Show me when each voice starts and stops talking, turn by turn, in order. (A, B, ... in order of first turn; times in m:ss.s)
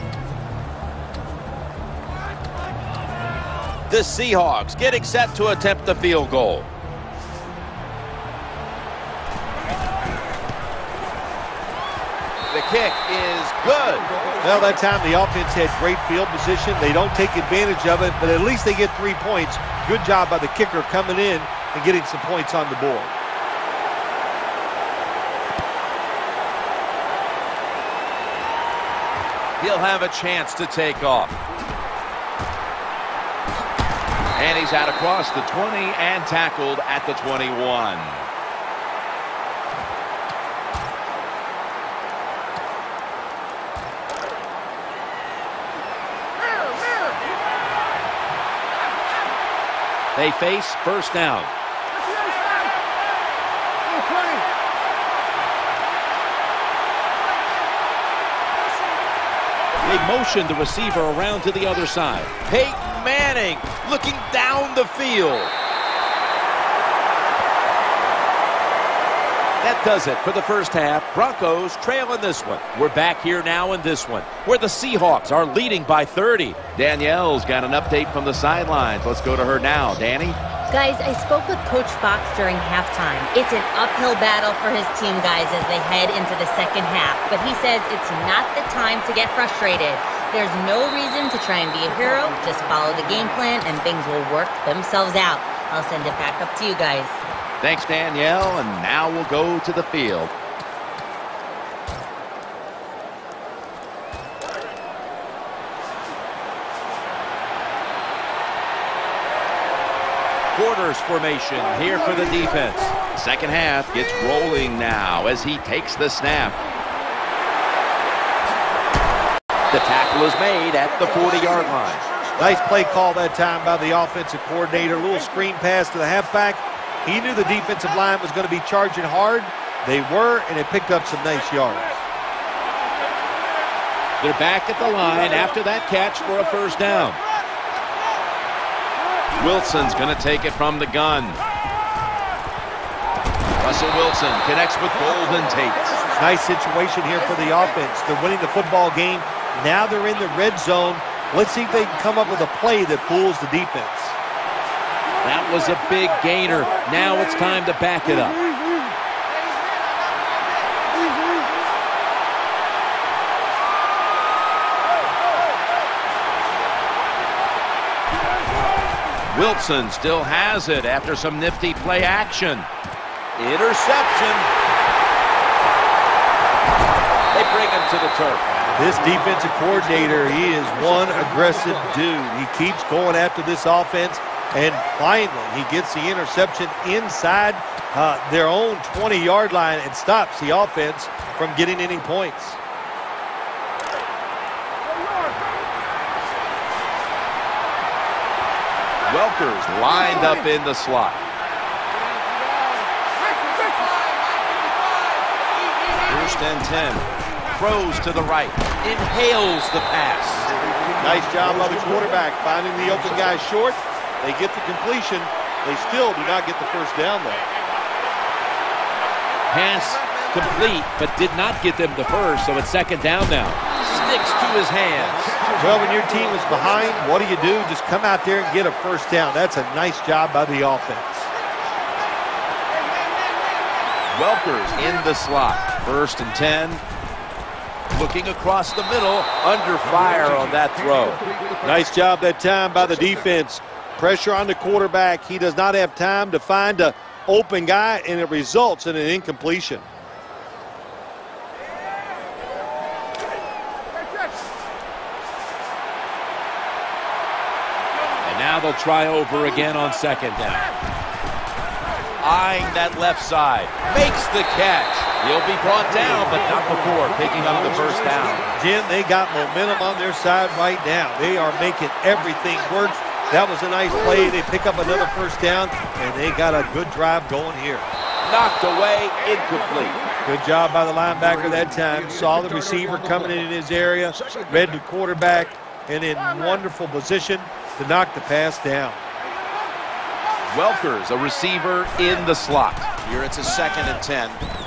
0:03.9-0:06.7 A
0:12.5-0:14.1 A
0:14.4-0:23.1 B
0:29.6-0:31.3 A
0:34.4-0:38.2 A
0:50.2-0:51.5 A
0:59.8-1:05.5 A
1:09.6-1:20.4 A
1:20.7-1:37.2 C
1:37.6-1:40.3 A
1:50.5-1:56.6 A
1:59.7-2:02.1 A
2:02.4-2:12.0 B
2:14.2-2:17.2 A
2:19.4-2:21.4 A
2:23.6-2:26.1 A
2:26.2-2:34.2 B
2:35.2-2:38.4 A
2:49.3-2:52.7 A
2:53.4-2:54.5 A
2:57.3-2:58.5 A
2:58.8-3:12.6 B
3:19.0-3:21.2 A
3:26.0-3:30.5 A
3:31.0-3:37.5 B
3:39.5-3:45.4 A
3:45.6-3:51.3 B
3:54.1-3:56.8 A
3:57.9-4:01.2 A
4:01.6-4:09.9 B
4:18.2-4:20.7 A
4:22.2-4:28.4 A
4:28.5-4:37.9 B
4:38.2-4:40.0 A
4:40.2-4:49.0 B
4:50.5-4:54.4 A